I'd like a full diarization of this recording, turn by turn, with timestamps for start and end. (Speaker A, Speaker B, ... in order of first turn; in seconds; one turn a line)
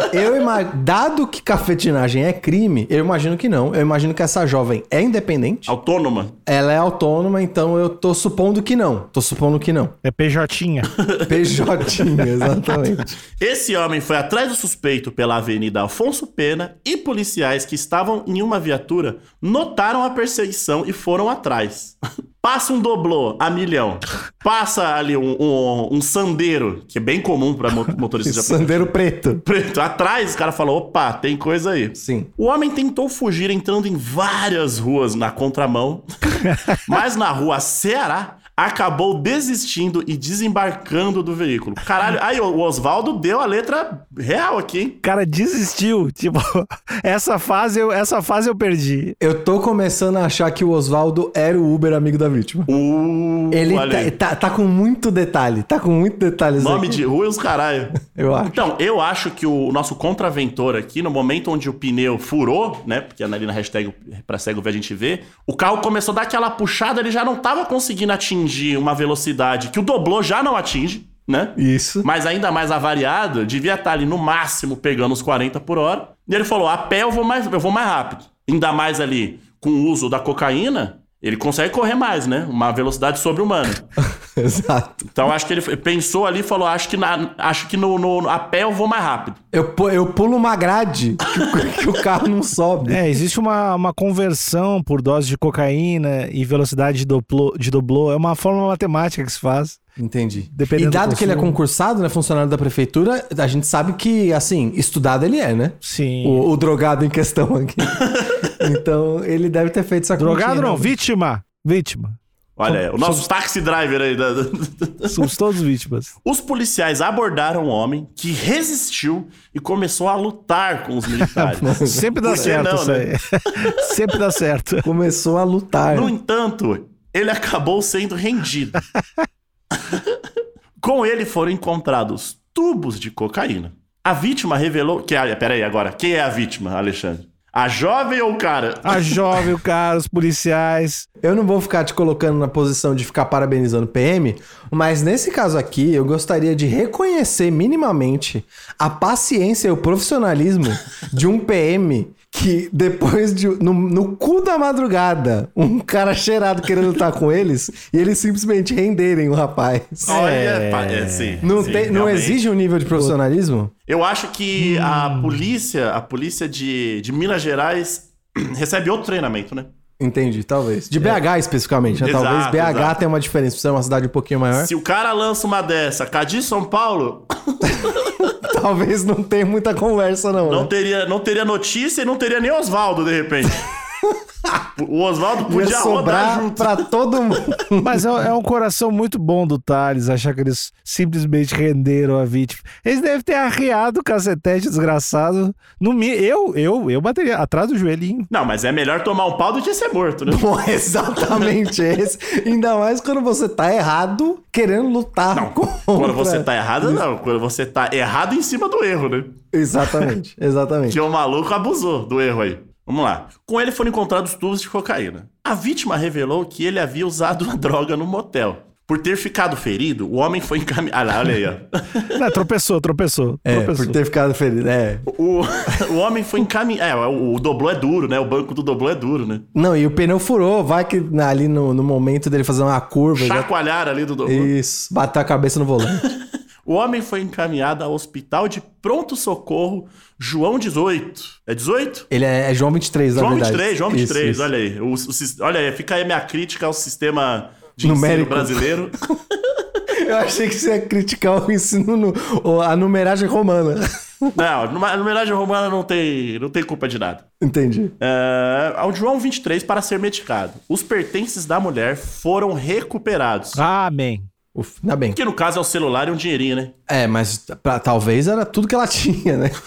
Speaker A: 0.1-5.7
Speaker B: 5.7-6.4
Speaker A: 6.5-9.9
Speaker C: 10.0-10.9
Speaker B: 11.0-12.1
Speaker A: 11.3-13.2
Speaker B: 13.4-28.9
Speaker A: 28.2-29.4
Speaker B: 29.4-45.0
Speaker A: 32.0-32.3
Speaker C: 36.5-36.8
Speaker C: 45.0-49.2
Speaker A: 49.2-52.7
Speaker B: 52.7-54.1
Speaker A: 53.5-57.0
Speaker B: 56.6-58.0
Speaker A: 58.0-58.7
Speaker B: 58.5-83.9
Speaker A: 71.6-72.1
Speaker A: 84.4-85.1
Speaker B: 85.1-89.4
Speaker A: 89.5-93.0
Speaker C: 92.8-99.8
Speaker A: 100.0-108.0
Speaker C: 100.5-101.6
Speaker C: 105.8-106.5
Speaker B: 107.9-108.5
Speaker A: 108.6-111.0
Speaker C: 110.2-113.3
Speaker B: 112.6-115.3
Speaker C: 115.0-116.1
Speaker B: 116.2-123.1
Speaker C: 121.3-124.9
Speaker A: 121.6-122.6
Speaker A: 124.8-126.1
Speaker B: 125.9-128.8
Speaker B: 129.9-130.2
Speaker B: 130.8-139.5
Speaker C: 138.8-141.1
Speaker A: 141.2-160.5
Speaker C: 160.1-161.9
Speaker B: 160.1-162.4
Speaker A: 161.4-163.7
Speaker B: 163.9-169.7
Speaker C: 164.6-165.5
Speaker A: 170.0-174.7
Speaker B: 172.0-173.0
Speaker B: 174.5-178.3
Speaker A: 177.7-180.7
Speaker B: 180.4-183.6
Speaker B: 184.8-186.8
Speaker A: 185.5-188.1
Speaker C: 187.8-198.3
Speaker B: 198.3-200.5
Speaker A: 200.3-207.0
Speaker B: 201.3-201.6
Speaker B: 205.3-210.1
Speaker A: 209.5-211.0
Speaker B: 210.9-222.1
Speaker C: 222.1-224.0
Speaker A: 223.4-225.1
Speaker B: 225.1-229.4
Speaker A: 229.5-233.5
Speaker B: 233.2-234.5
Speaker A: 234.2-236.1
Speaker B: 236.7-242.1
Speaker A: 242.1-244.5
Speaker B: 243.1-249.0
Speaker A: 247.8-248.8
Speaker A: 250.0-254.4
Speaker B: 254.3-257.2
Speaker A: 257.4-257.9
Speaker B: 258.0-263.6
Speaker C: 263.6-264.3
Speaker A: 264.5-265.2
Speaker B: 265.1-266.7
Speaker A: 266.9-269.6